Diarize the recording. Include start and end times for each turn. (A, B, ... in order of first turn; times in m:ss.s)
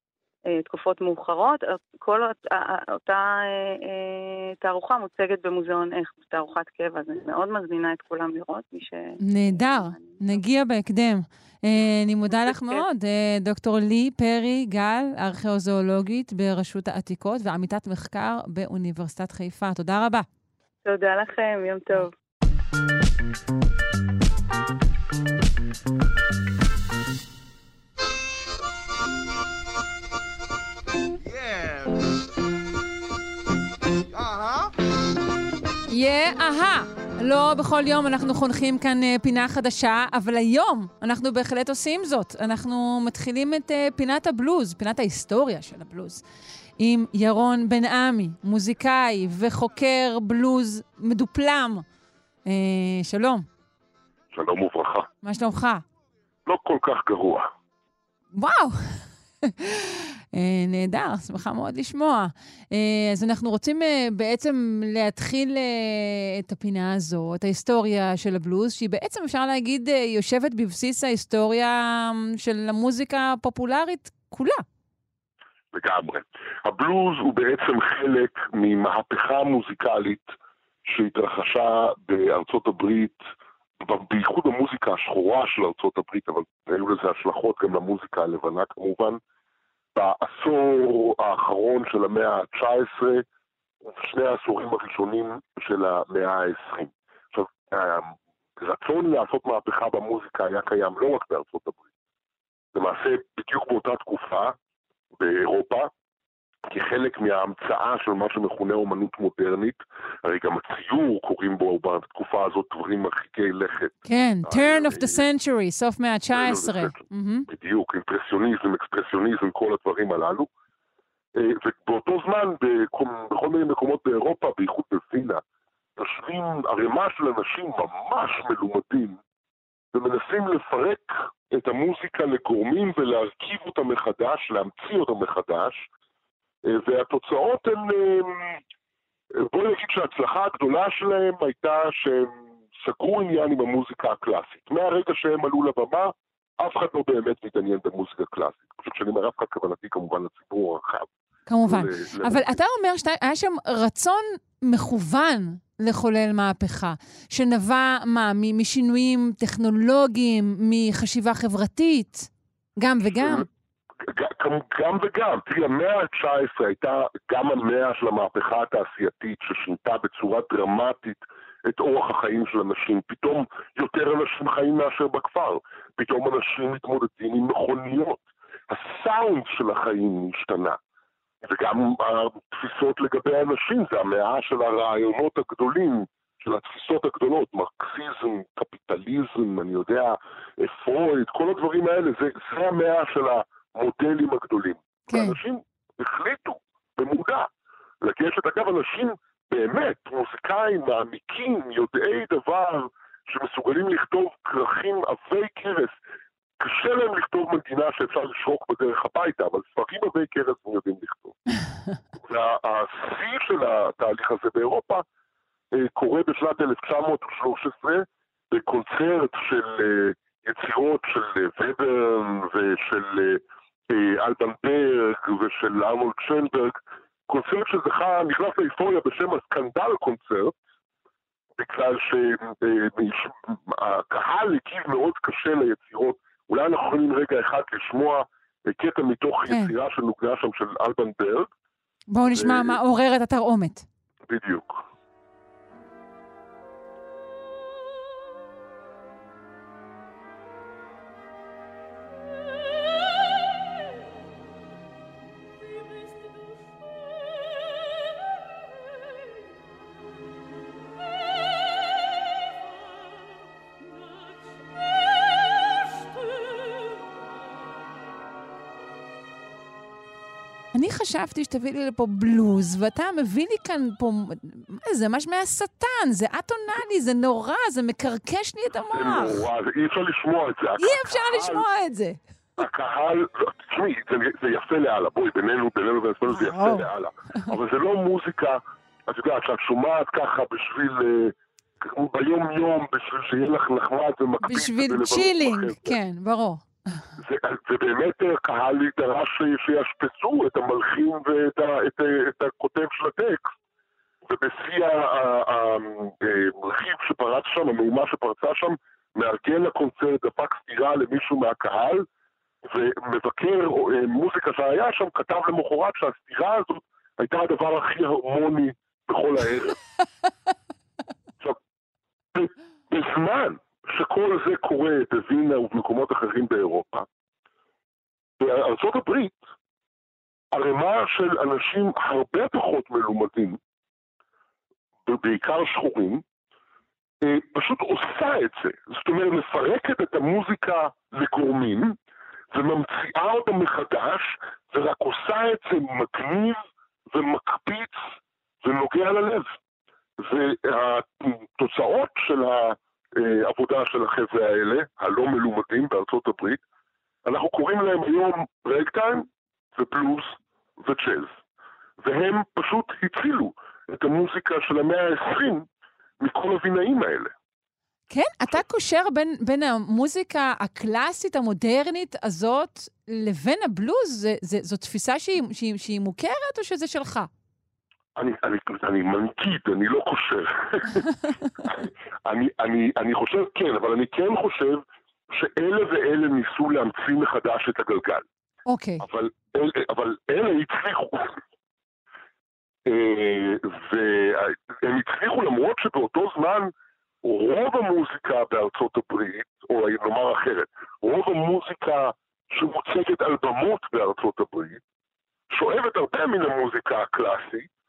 0:00.5-0:10.4 A
0:09.2-0:20.2 B
0:12.3-0:12.8 A
0:20.8-0:22.1 A
0:35.9-0:46.2 B
0:46.8-0:51.8 B
0:52.4-0:53.4 B
0:54.3-0:55.1 C
0:55.2-0:55.8 B
0:56.4-0:57.5 C
0:58.3-1:14.6 B
1:15.7-1:20.3 C
1:20.8-1:23.2 C
1:23.8-1:29.2 C
1:29.9-1:33.2 C
1:33.8-1:41.8 C
1:42.7-1:44.6 C
1:45.2-1:45.9 C
1:46.7-1:55.2 C
1:54.0-1:57.5 B
1:56.3-2:00.5 C
2:01.4-2:05.4 C
2:06.0-2:09.2 C
2:09.9-2:15.8 C
2:16.6-2:18.6 C
2:19.4-2:31.1 C
2:31.5-2:43.5 B
2:31.6-2:32.5 C
2:43.2-2:43.4 C
2:44.0-3:00.8 C
3:01.4-3:17.5 C
3:15.1-3:15.4 B
3:18.0-3:26.0 C
3:26.6-3:31.4 C
3:32.2-3:35.0 C
3:35.7-3:50.5 C
3:51.6-4:01.5 C
3:59.5-3:59.7 B
4:02.1-4:03.8 B
4:02.3-4:02.8 C
4:04.3-4:04.8 C
4:30.7-4:39.4 B
4:38.9-4:41.6 C
4:40.8-4:42.2 B
4:42.6-4:56.0 C
4:46.3-4:46.9 B
4:54.4-4:57.0 B
4:57.2-5:03.5 C
5:04.3-5:12.1 C
5:12.6-5:19.8 C
5:22.3-5:27.1 C
5:28.4-5:29.4 C
5:30.5-5:33.6 C
5:35.0-5:36.2 C
5:37.2-5:42.0 C
5:42.5-5:46.6 C
5:47.1-5:48.0 C
5:48.6-5:49.5 C
5:50.2-5:56.6 C
5:57.2-6:01.3 C
6:02.0-6:05.7 C
6:06.2-6:07.3 C
6:08.1-6:17.3 B
6:18.2-6:21.1 C
6:21.6-6:28.2 C
6:28.7-6:29.0 B
6:29.0-6:31.4 C
6:32.8-6:44.8 C
6:45.5-6:47.7 C